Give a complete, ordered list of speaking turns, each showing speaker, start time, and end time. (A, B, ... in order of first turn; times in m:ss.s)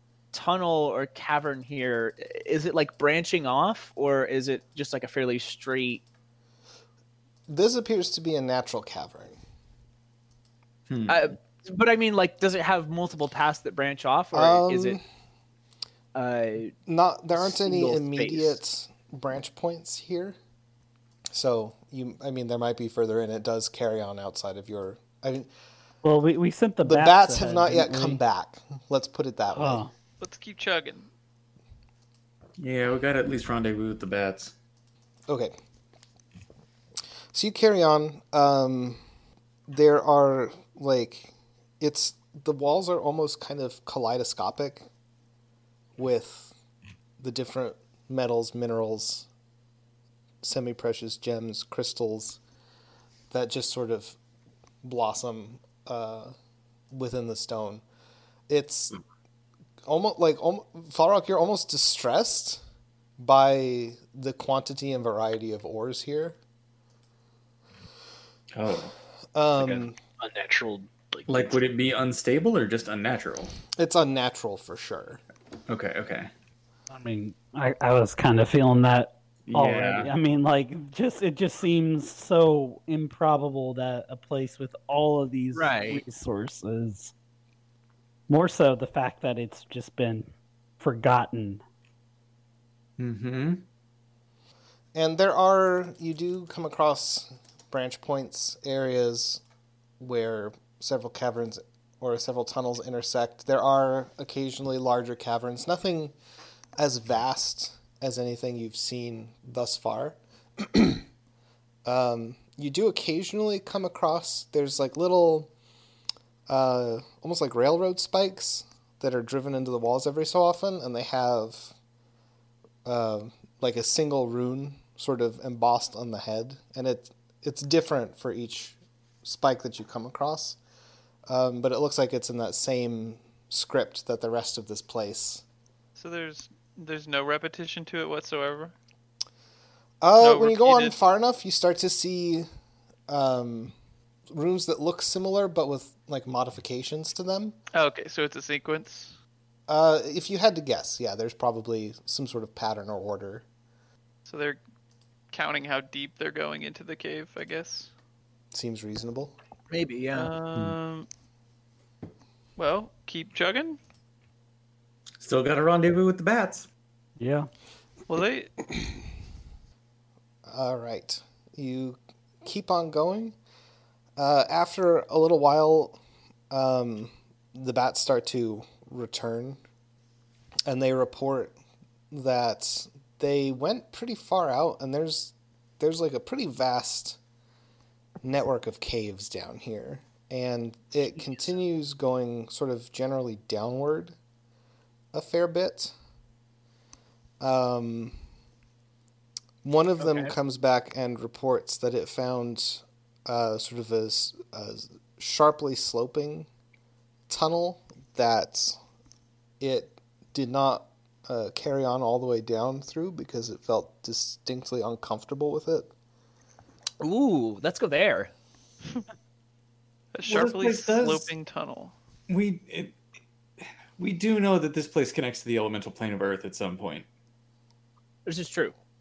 0:00.3-0:06.0 A
0:07.5-0:09.4 B
0:10.9-0:11.2 C
0:11.1-0:15.0 A
0:14.3-0:15.0 B
0:16.1-0:16.7 A
0:16.8-0:20.4 B
0:17.4-0:18.6 A
0:21.3-0:25.5 B
0:26.0-0:28.2 D
0:26.8-0:29.8 B
0:29.5-0:29.9 D
0:30.2-0:31.1 E
0:32.6-0:34.5 C
0:35.3-0:35.5 B
0:37.3-0:39.0 B
0:39.7-0:44.9 B
0:46.0-0:46.5 B
0:47.2-0:49.3 B
0:50.4-0:52.4 B
0:53.3-0:54.2 B
0:54.8-0:56.3 B
0:56.9-0:57.8 B
0:58.5-0:59.0 B
0:59.8-1:02.6 B
1:03.2-1:06.4 B
1:08.5-1:08.9 C
1:09.3-1:10.0 B
1:09.6-1:11.6 F
1:11.3-1:13.5 C
1:13.8-1:15.2 B
1:15.7-1:16.3 C
1:16.9-1:27.1 D
1:19.5-1:20.1 C
1:25.5-1:26.0 A
1:28.3-1:30.3 D
1:30.8-1:31.6 D
1:33.0-1:33.6 C
1:34.9-1:39.4 B
1:40.0-1:46.1 B
1:46.8-1:51.0 B
1:51.8-1:55.5 B
1:56.5-2:01.7 B
2:02.8-2:10.6 B
2:11.3-2:15.4 B
2:16.0-2:18.7 E
2:20.0-2:22.5 B
2:20.2-2:21.0 E
2:23.1-2:23.7 B
2:24.3-2:27.6 B
2:27.7-2:29.1 E
2:29.7-2:33.4 B
2:34.2-2:34.6 E
2:35.3-2:37.9 E
2:38.5-2:39.4 B
2:39.7-2:40.3 A
2:40.1-2:41.1 E
2:42.6-2:43.8 E
2:45.2-2:46.7 C
2:47.2-2:47.5 D
2:48.1-2:48.5 E
2:50.4-2:53.3 B
2:54.2-2:56.0 B
2:56.5-2:59.6 B
3:00.6-3:01.6 B
3:02.1-3:07.2 B
3:08.2-3:14.2 B
3:15.1-3:15.9 B
3:17.4-3:18.2 B
3:19.6-3:26.5 B
3:20.0-3:20.3 A
3:27.3-3:28.8 B
3:29.6-3:35.9 B
3:37.0-3:38.3 A
3:40.1-3:41.9 E
3:40.2-3:41.3 C
3:42.3-3:43.0 C
3:44.0-3:47.0 C
3:48.2-3:48.7 A